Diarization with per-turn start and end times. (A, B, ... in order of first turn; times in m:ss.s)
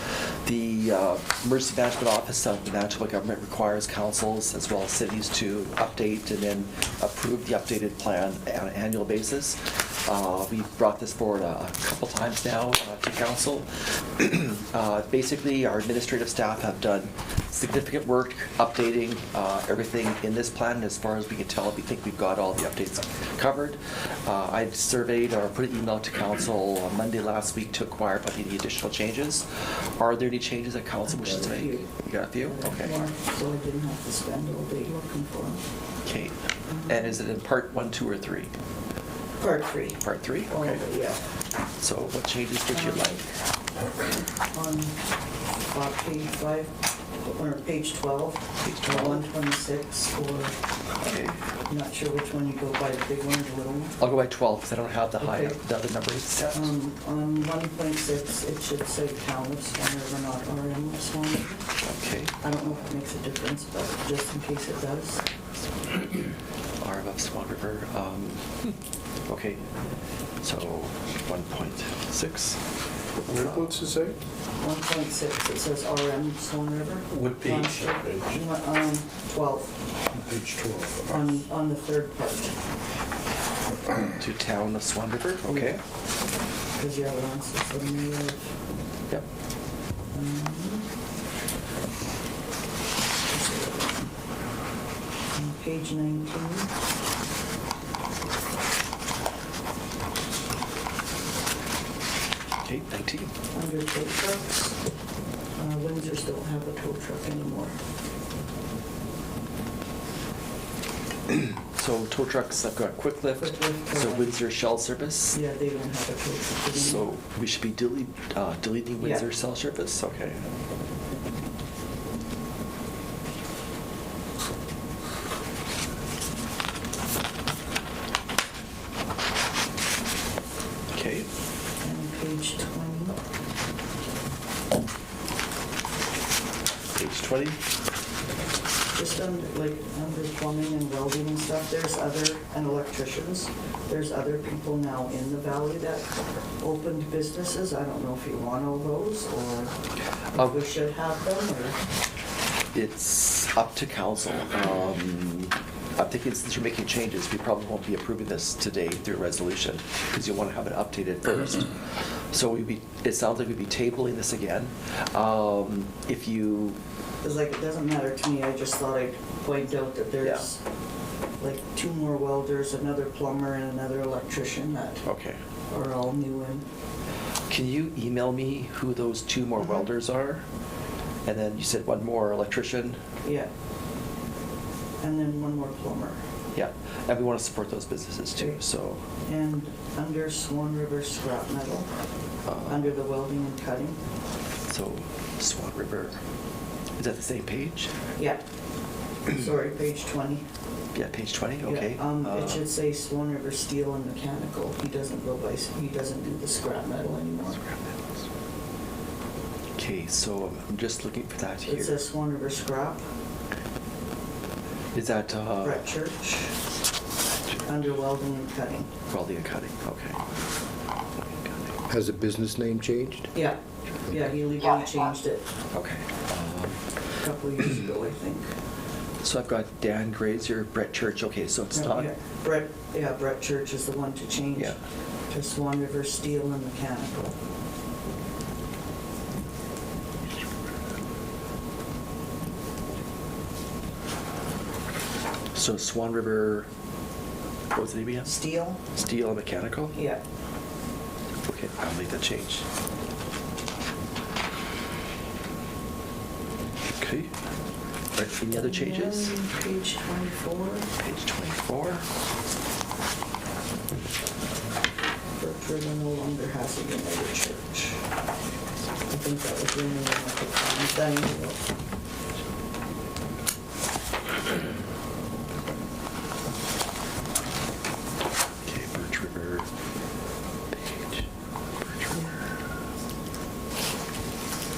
0:00.4-0:33.1 A
0:31.3-0:31.9 B
0:32.4-0:35.6 B
0:36.0-0:38.5 A
0:36.7-0:37.1 B
0:39.4-0:41.2 B
0:40.0-0:40.9 A
0:41.8-0:43.2 A
0:42.7-0:43.2 B
0:44.5-0:45.0 B
0:45.7-0:50.5 B
0:48.6-0:49.3 A
0:51.0-0:51.4 A
0:51.7-0:54.0 B
0:54.0-0:56.7 A
0:55.2-0:55.6 B
0:56.5-1:01.6 B
1:01.8-1:02.5 A
1:02.4-1:05.2 B
1:06.8-1:08.8 A
1:09.3-1:09.6 A
1:10.4-1:12.6 A
1:13.3-1:14.1 C
1:13.3-1:13.8 A
1:14.6-1:19.7 B
1:20.1-1:21.1 C
1:21.1-1:22.6 B
1:24.2-1:25.8 A
1:25.4-1:25.8 B
1:26.7-1:28.5 B
1:30.1-1:30.9 B
1:33.3-1:34.1 B
1:35.3-1:36.7 B
1:42.6-1:43.3 A
1:43.5-1:44.7 B
1:45.6-1:47.8 B
1:51.3-1:55.4 A
1:53.4-1:54.4 B
1:55.3-1:57.1 B
1:56.7-2:00.4 A
1:59.0-1:59.2 B
2:10.9-2:11.3 A
2:11.8-2:13.2 B
2:16.9-2:17.6 A
2:18.9-2:26.1 B
2:26.6-2:29.7 B
2:30.3-2:31.8 B
2:32.7-2:46.8 A
2:47.2-2:50.6 B
2:50.2-2:50.5 A
2:51.4-2:55.0 B
2:55.0-2:55.4 A
2:55.7-2:56.6 B
2:57.5-3:00.4 A
3:01.2-3:03.0 A
3:03.2-3:03.5 B
3:05.0-3:06.2 B
3:06.5-3:09.0 A
3:09.2-3:11.9 B
3:12.4-3:12.9 A
3:12.7-3:14.0 B
3:14.7-3:16.2 A
3:17.0-3:17.9 A
3:18.2-3:18.4 B
3:19.3-3:20.4 B
3:20.9-3:22.7 A
3:21.6-3:27.6 B
3:27.6-3:28.2 A
3:29.8-3:32.0 A
3:31.6-3:33.0 B
3:34.9-3:35.8 A
3:35.6-3:36.5 B
3:37.6-3:38.9 B
3:39.1-3:40.2 A
3:41.4-3:41.7 A
3:41.9-3:43.3 C
3:43.3-3:45.4 B
3:45.7-3:46.8 A
3:47.2-3:48.5 B
3:49.2-3:52.1 A
3:51.7-3:54.8 B
3:55.3-3:57.3 B
4:05.5-4:06.7 A
4:07.7-4:08.3 A
4:08.2-4:08.8 B
4:08.9-4:10.0 A
4:09.9-4:10.2 B
4:11.4-4:12.6 A
4:17.0-4:17.3 A
4:18.1-4:19.4 A
4:18.5-4:20.9 B
4:21.0-4:22.0 A
4:25.4-4:28.0 B
4:29.1-4:31.6 B
4:38.6-4:39.7 A
4:40.7-4:41.3 A
4:41.8-4:42.3 A